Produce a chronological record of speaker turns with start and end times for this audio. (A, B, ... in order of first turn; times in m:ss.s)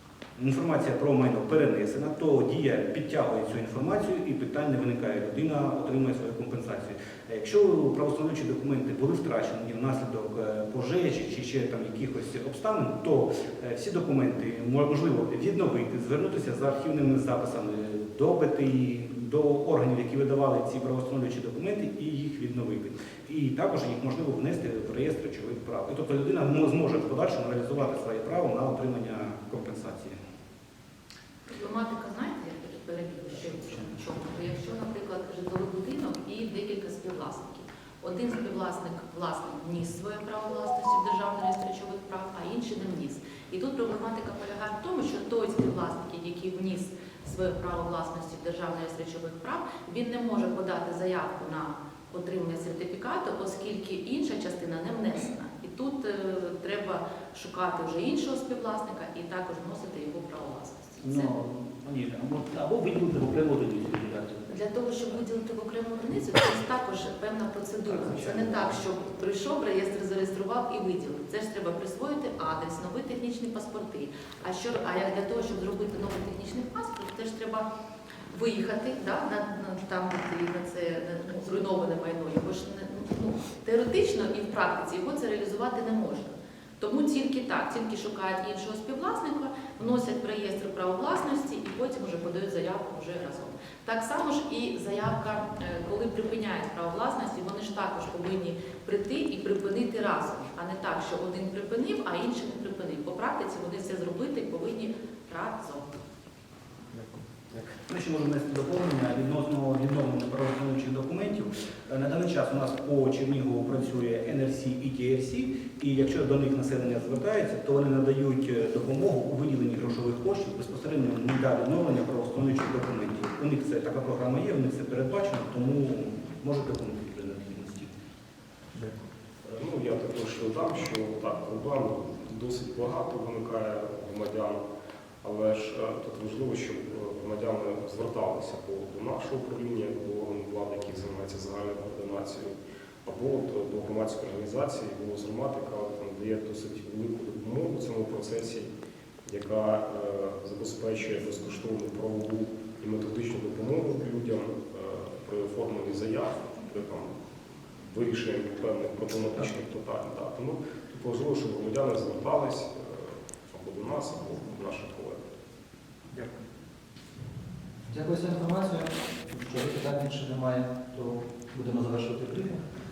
0:00.4-0:30.2 A
0:31.5-1:01.3 B
1:01.0-1:04.5 A
1:04.5-1:17.7 B
1:07.9-1:08.8 A
1:18.3-1:45.9 B
1:47.8-2:07.9 A
2:09.4-2:14.6 C
2:15.2-2:28.7 C
2:29.2-2:37.1 C
2:37.8-2:45.2 C
2:47.9-2:52.6 D